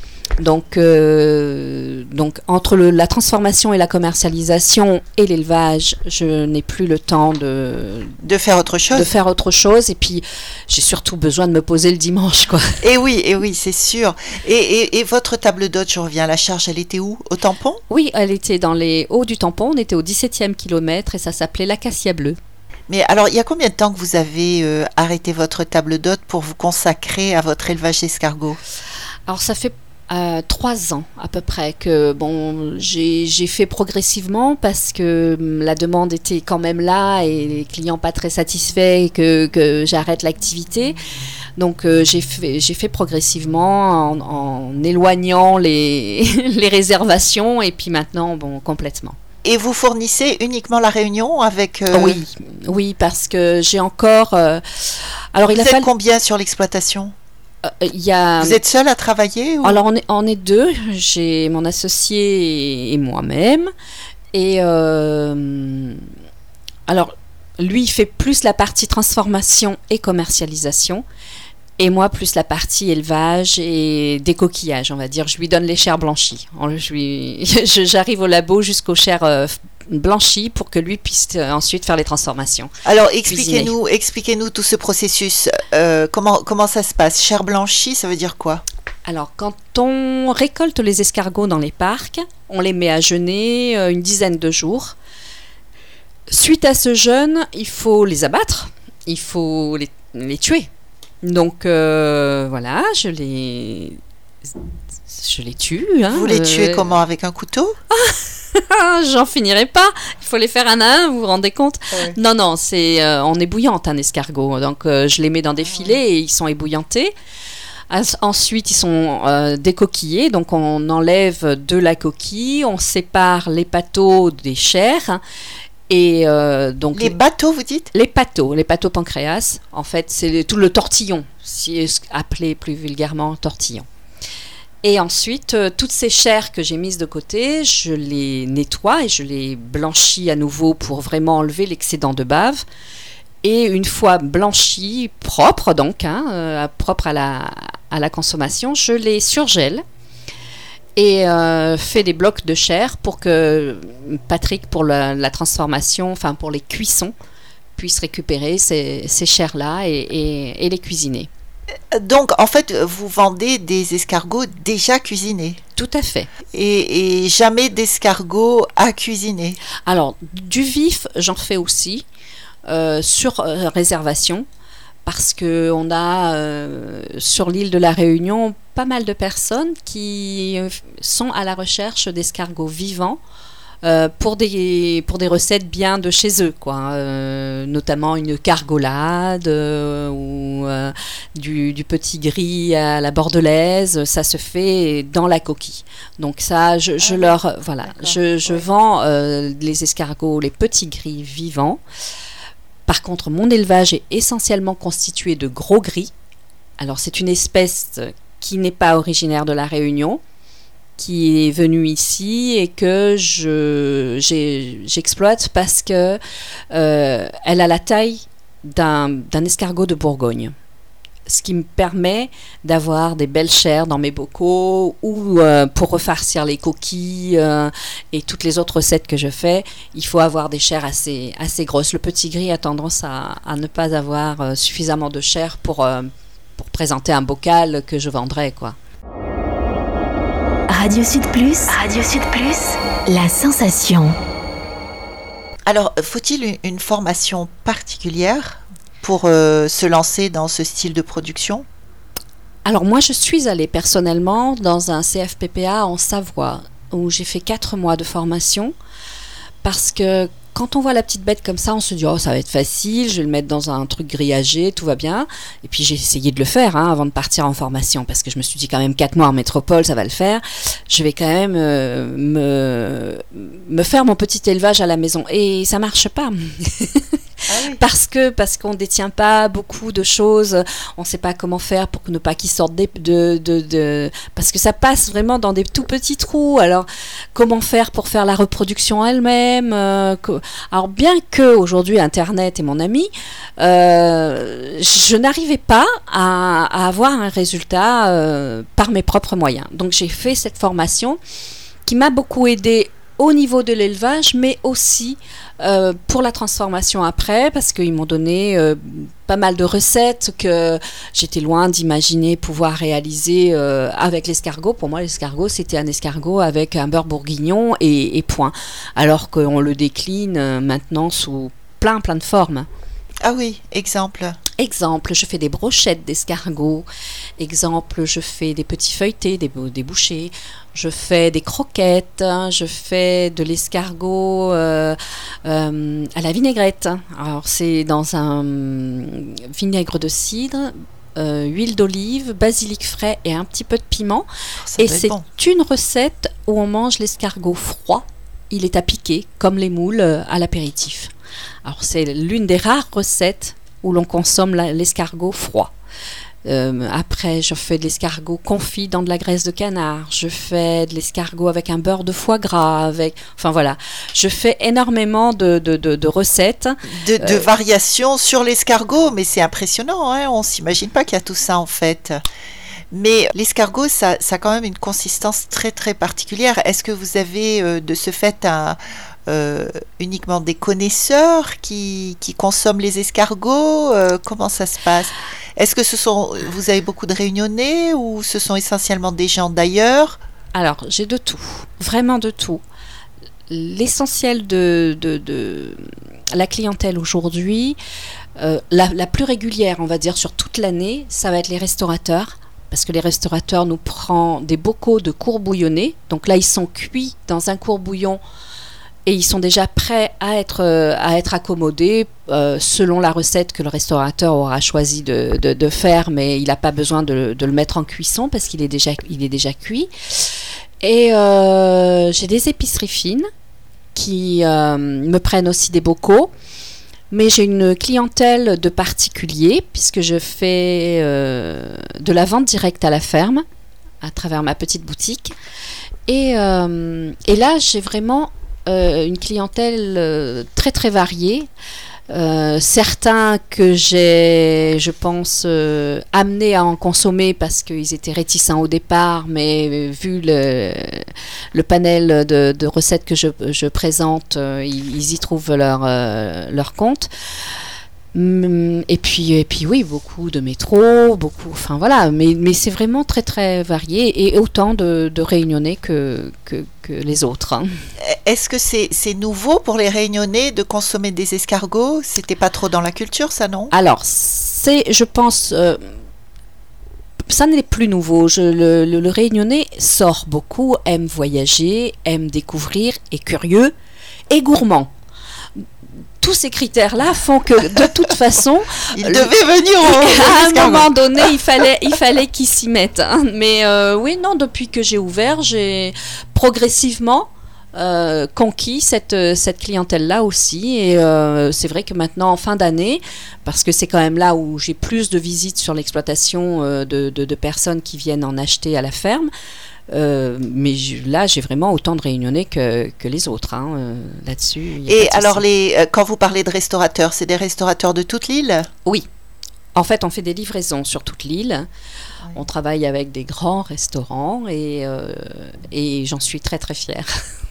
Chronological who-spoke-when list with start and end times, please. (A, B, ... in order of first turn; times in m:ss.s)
0:00.4-0:08.2 A
0:08.2-0:09.1 B
0:08.9-0:12.8 A
0:12.8-0:17.8 B
0:17.9-0:22.4 A
0:22.9-0:28.6 B
0:29.3-0:41.0 A
0:41.6-0:49.2 A
0:49.4-0:52.2 B
0:51.9-0:55.9 A
0:55.5-0:57.1 B
0:57.6-0:58.6 A
0:58.4-0:59.8 B
0:59.6-1:03.7 A
1:04.3-1:06.1 A
1:06.9-1:11.0 A
1:11.8-1:22.7 A
1:22.8-1:28.6 B
1:23.3-1:23.7 A
1:29.0-1:35.0 A
1:36.3-1:40.7 A
1:41.2-1:44.0 A
1:45.1-1:47.0 A
1:46.1-1:47.8 B
1:47.9-1:57.1 A
1:51.9-1:52.2 B
1:55.7-1:55.9 B
1:57.9-2:05.2 A
2:05.9-2:07.1 A
2:06.9-2:07.9 B
2:07.9-2:13.8 A
2:14.8-2:22.6 A
2:23.4-2:29.8 A
2:31.0-2:37.1 A
2:37.8-2:41.3 A
2:41.9-2:45.6 B
2:45.8-2:46.3 A
2:46.5-2:49.6 B
2:49.8-2:52.0 A
2:52.7-2:54.4 A
2:55.0-3:03.2 A
3:03.8-3:21.8 A
3:17.0-3:18.7 B
3:22.9-3:26.1 A
3:26.8-3:30.2 A
3:31.0-3:36.2 A
3:36.7-3:40.5 A
3:41.3-3:58.8 A
4:00.7-4:04.2 C
4:05.7-4:11.6 B
4:12.6-4:18.7 A
4:19.6-4:37.2 A
4:37.5-4:37.8 B
4:37.8-5:01.2 A
5:01.8-5:22.7 A
5:23.2-5:24.4 B
5:24.6-5:26.8 A
5:27.4-5:44.3 A
5:44.6-5:45.2 B
5:44.8-5:51.1 A
5:51.6-5:55.7 A
5:56.4-6:07.4 A
6:06.9-6:12.2 B
6:12.9-6:30.2 B
6:30.5-6:32.6 A
6:33.5-6:37.8 A
6:38.4-6:48.2 A
6:49.0-7:03.3 A
7:03.9-7:06.3 A
7:07.1-7:13.4 A
7:14.0-7:15.3 A
7:16.1-7:21.5 A
7:22.1-7:37.1 A
7:38.1-7:47.7 A
7:48.0-7:53.7 B
7:53.7-7:55.9 A
7:57.3-8:03.7 A
8:04.3-8:04.9 A
8:06.2-8:09.3 A
8:08.9-8:11.3 B
8:09.8-8:29.3 A
8:29.9-8:35.4 A
8:34.9-8:38.7 B
8:39.7-8:41.7 A
8:42.3-8:47.1 A